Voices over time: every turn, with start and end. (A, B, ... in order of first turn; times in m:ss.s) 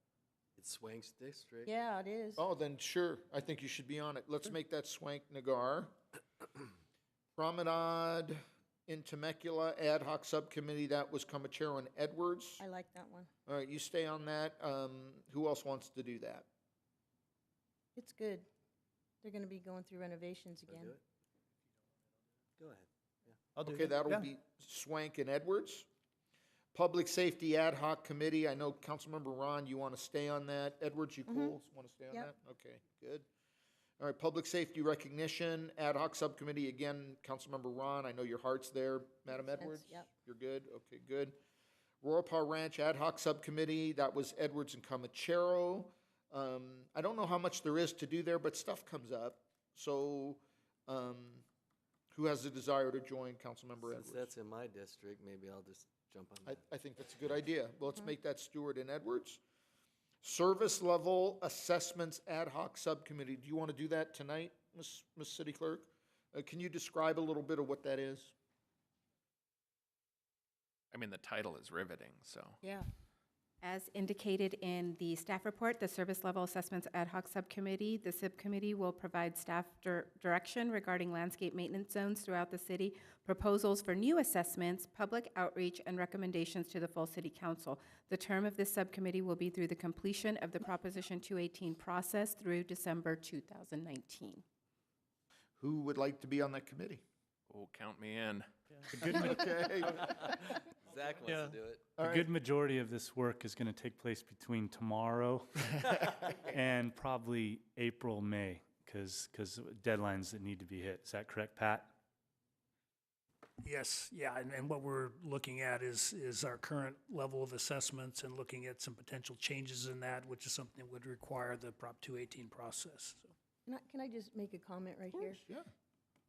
0:00.6-0:01.7 A
0:01.6-0:02.4 B
0:02.4-0:05.9 C
0:07.4-0:12.6 C
0:12.6-0:13.3 B
0:13.5-0:16.4 C
0:18.0-0:18.4 B
0:19.2-0:21.0 B
0:20.7-0:21.0 A
0:22.6-0:23.4 A
0:23.6-0:24.3 D
0:23.6-0:25.9 C
0:26.7-0:33.3 C
0:31.3-0:31.6 B
0:34.0-0:41.4 C
0:39.3-0:40.1 B
0:42.0-0:51.4 C
0:52.1-0:54.3 C
0:53.8-0:56.6 A
0:56.5-0:59.4 C
1:00.2-1:08.3 C
1:10.9-1:12.6 E
1:13.6-1:34.4 F
1:35.6-1:37.0 C
1:37.5-1:38.5 E
1:38.9-1:40.1 C
1:40.0-1:40.3 A
1:40.8-1:41.8 A
1:42.0-1:42.3 C
1:42.0-1:45.5 G
1:46.5-1:51.9 G
1:53.6-2:03.3 D
2:03.6-2:05.4 B
2:05.2-2:05.7 C